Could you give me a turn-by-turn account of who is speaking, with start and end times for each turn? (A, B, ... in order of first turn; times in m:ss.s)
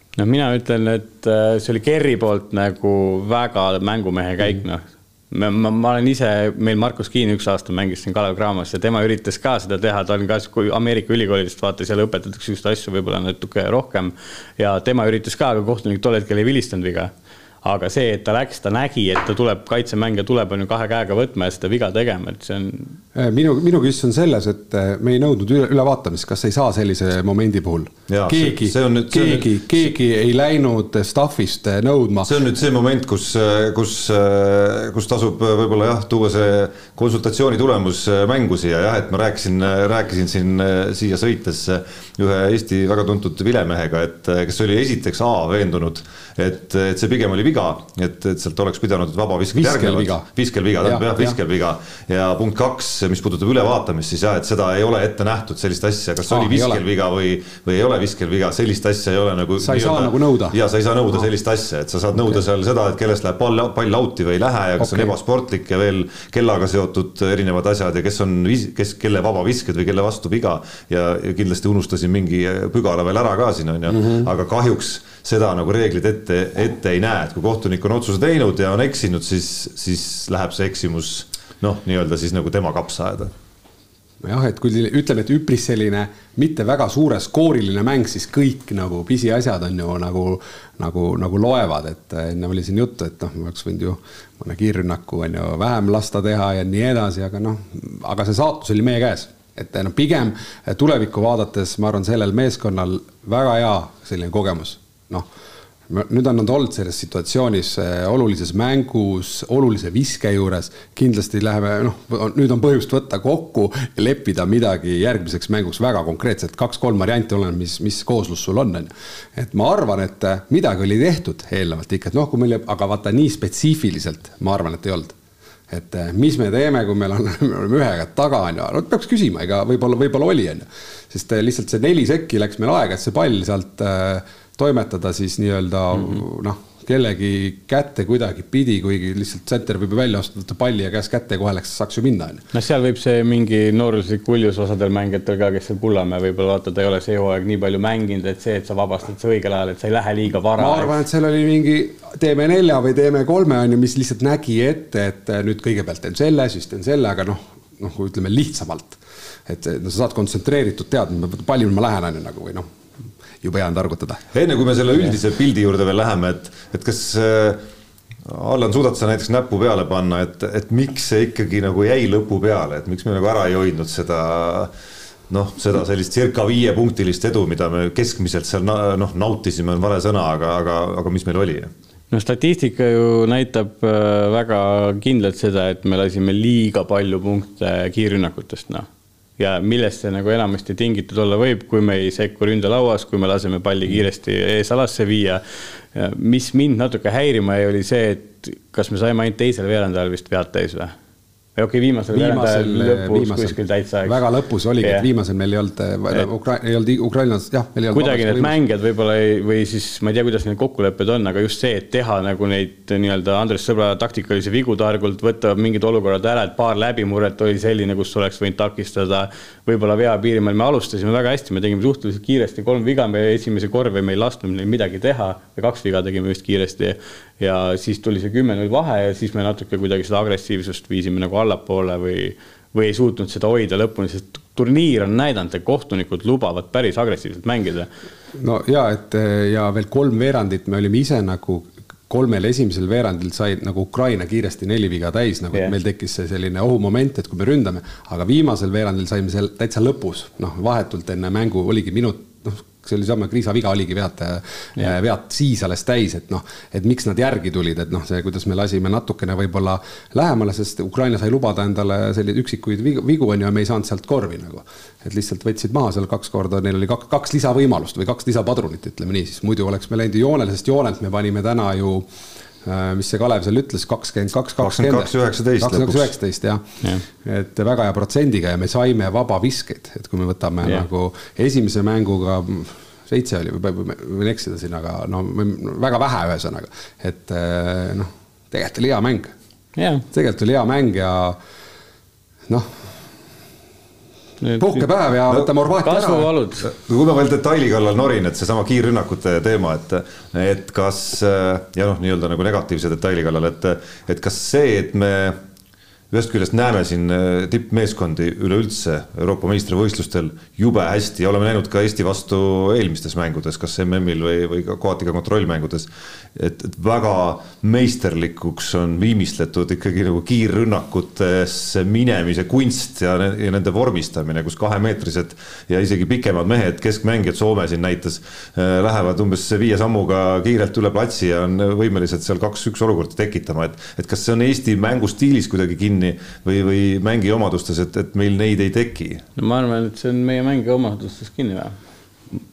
0:00.2-0:17.1 A
0:17.6-0:23.0 A
0:23.1-0:32.3 B
0:28.1-0:29.6 C
0:32.2-1:23.3 C
0:49.5-0:50.2 B
0:50.8-0:51.4 B
0:56.3-0:56.8 B
0:59.6-1:00.6 B
1:04.8-1:05.1 B
1:24.2-1:45.3 B
1:45.9-2:05.1 B
2:05.7-2:22.4 B
2:22.5-2:30.9 A
2:30.6-2:42.6 B
2:43.4-2:44.2 B
2:44.3-2:47.6 C
2:48.2-2:54.7 C
2:55.3-3:01.7 C
3:02.1-3:08.9 A
3:09.4-3:20.9 A
3:21.6-3:24.2 A
3:22.1-3:28.5 B
3:24.8-3:25.1 A
3:27.9-3:57.9 A
3:58.3-4:32.1 B
4:32.6-4:49.3 B
4:34.6-4:36.1 C
4:49.8-4:50.0 A
4:50.1-4:51.4 B
4:54.4-4:54.8 A
4:54.6-4:56.3 B
4:55.8-4:56.7 A
4:56.6-5:05.4 C
5:06.1-5:39.2 C
5:39.4-5:41.8 A